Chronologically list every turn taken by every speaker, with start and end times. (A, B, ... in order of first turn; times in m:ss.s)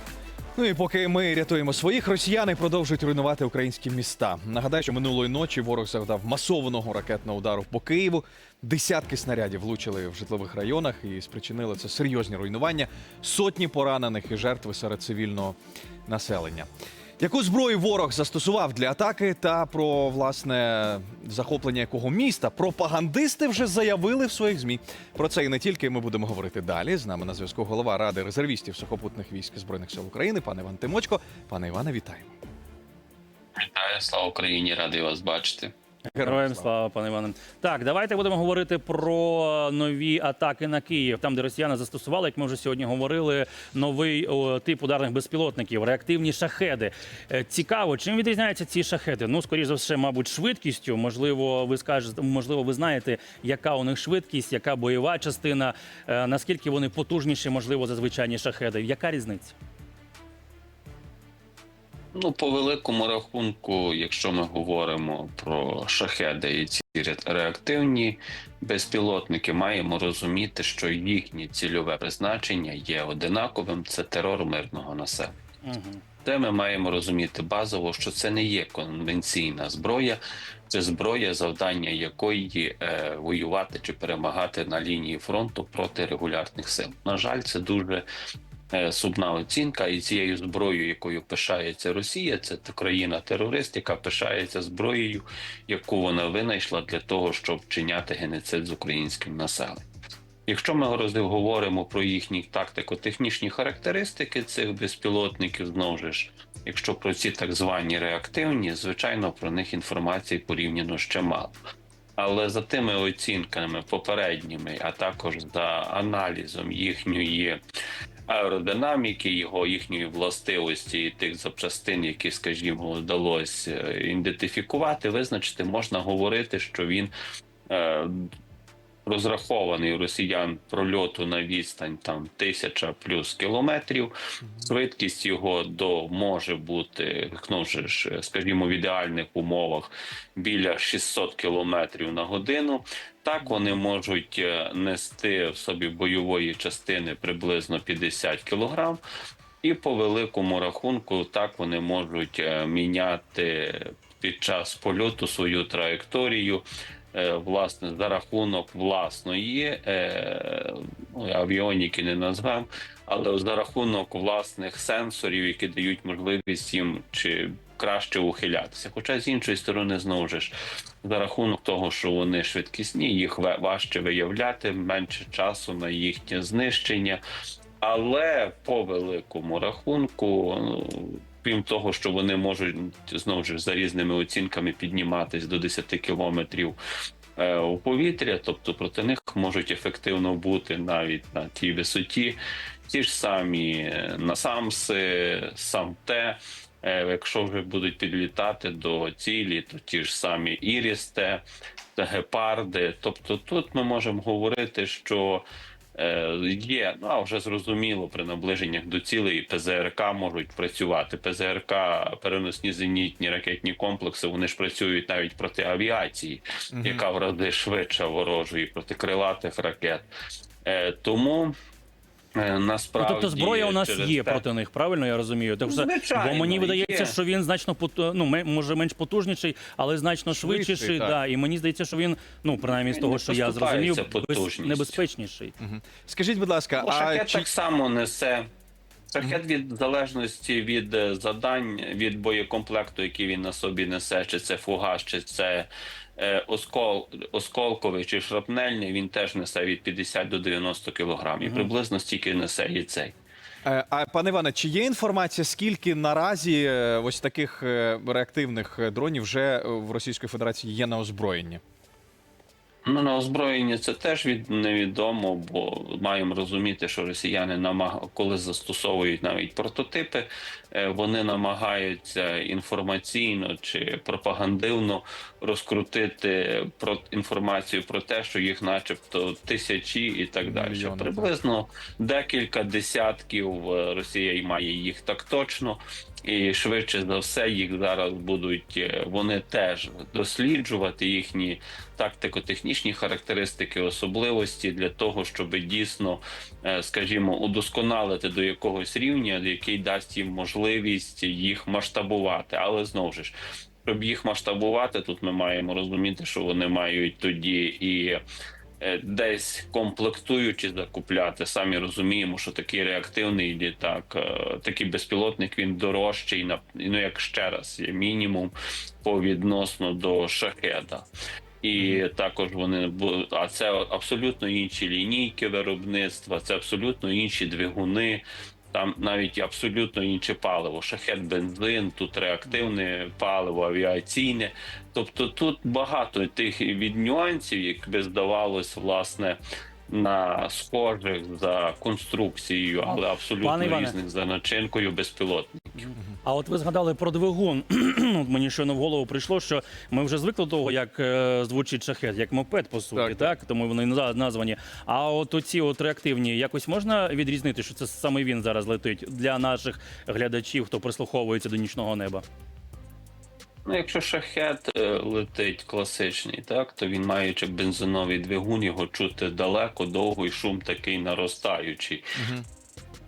0:00.6-0:15.6 A
0:16.1-0:32.3 A
0:33.6-0:35.7 B
0:36.1-0:36.7 A
0:36.2-0:59.6 C
1:02.1-1:15.4 B
1:15.6-1:16.0 C
1:16.2-1:28.0 B
1:28.7-1:39.8 B
1:40.5-1:51.6 B
1:52.2-1:57.6 B
1:58.3-2:07.1 B
2:07.7-2:08.3 B
2:09.1-2:29.0 B
2:29.6-2:57.2 B
2:57.8-3:06.8 B
3:07.4-3:21.4 B
3:22.0-3:25.4 B
3:26.0-3:40.1 B
3:36.7-3:37.0 A
3:40.6-3:41.5 B
3:42.4-3:44.4 B
3:43.0-3:55.5 C
3:45.6-3:47.2 B
3:50.3-3:51.2 A
3:52.6-3:55.0 B
3:55.6-3:57.5 A
3:56.8-3:58.5 B
3:59.1-4:13.1 B
4:11.4-4:11.7 C
4:13.6-4:21.6 A
4:22.8-5:03.3 B
4:40.4-4:41.3 A
5:03.8-5:08.2 B
5:08.8-5:21.1 B
5:21.6-5:45.9 B
5:43.4-5:44.0 C
5:46.2-6:02.2 C
5:52.9-5:53.3 A
6:03.7-6:12.0 B
6:12.2-6:12.5 A